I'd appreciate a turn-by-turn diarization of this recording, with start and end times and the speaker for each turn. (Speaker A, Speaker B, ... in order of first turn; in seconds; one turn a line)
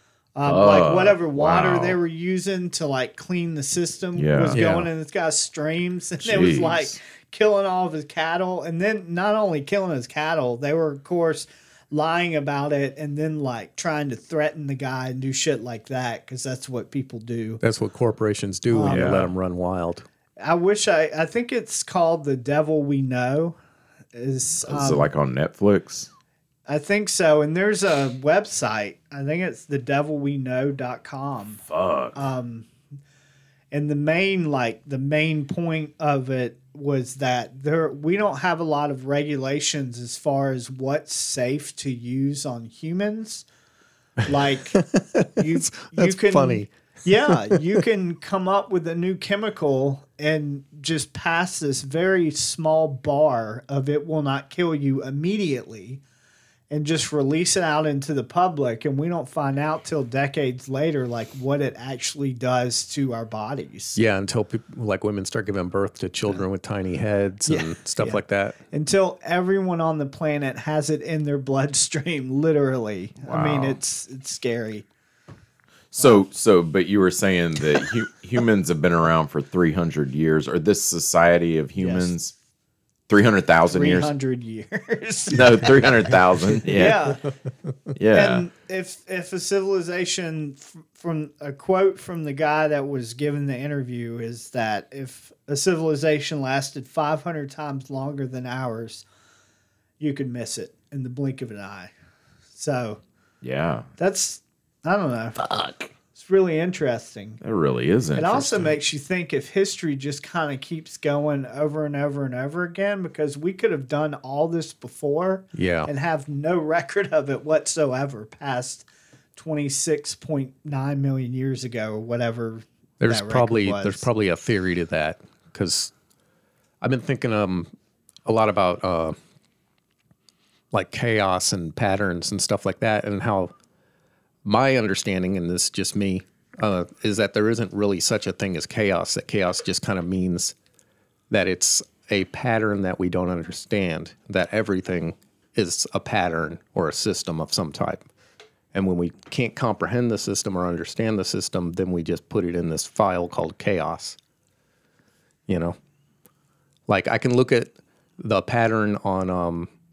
Speaker A: 0.4-17.6
Speaker B: 0.5-2.0
Speaker B: 4.2-4.6
Speaker C: 4.5-4.9
Speaker B: 6.2-7.0
Speaker C: 17.6-20.1
Speaker A: 18.7-19.2
Speaker B: 18.8-19.3
Speaker A: 20.4-23.6
Speaker A: 24.1-25.1
Speaker B: 24.6-26.1
Speaker A: 26.7-31.6
Speaker B: 31.7-32.2
Speaker A: 32.1-32.7
Speaker A: 33.7-43.5
Speaker A: 44.2-44.8
Speaker C: 44.8-46.7
Speaker A: 45.4-56.0
Speaker C: 47.3-47.8
Speaker A: 56.7-64.0
Speaker C: 64.0-68.6
Speaker A: 67.5-74.9
Speaker B: 73.2-73.8
Speaker B: 75.9-82.3
Speaker A: 76.0-76.2
Speaker A: 81.8-82.1
Speaker B: 83.1-84.1
Speaker A: 83.7-85.9
Speaker B: 85.3-87.0
Speaker A: 86.7-87.2
Speaker B: 88.0-88.5
Speaker A: 88.1-99.0
Speaker A: 100.0-101.9
Speaker A: 102.5-103.0
Speaker B: 103.4-103.9
Speaker A: 104.0-105.4
Speaker B: 105.4-105.9
Speaker A: 106.1-107.4
Speaker B: 107.4-108.8
Speaker A: 108.2-124.1
Speaker C: 115.5-115.9
Speaker C: 123.0-125.9
Speaker C: 126.8-127.7
Speaker C: 128.3-129.2
Speaker C: 130.7-133.5
Speaker C: 134.4-140.6
Speaker C: 141.3-148.1
Speaker C: 148.7-154.2
Speaker C: 155.5-155.8
Speaker C: 156.9-159.7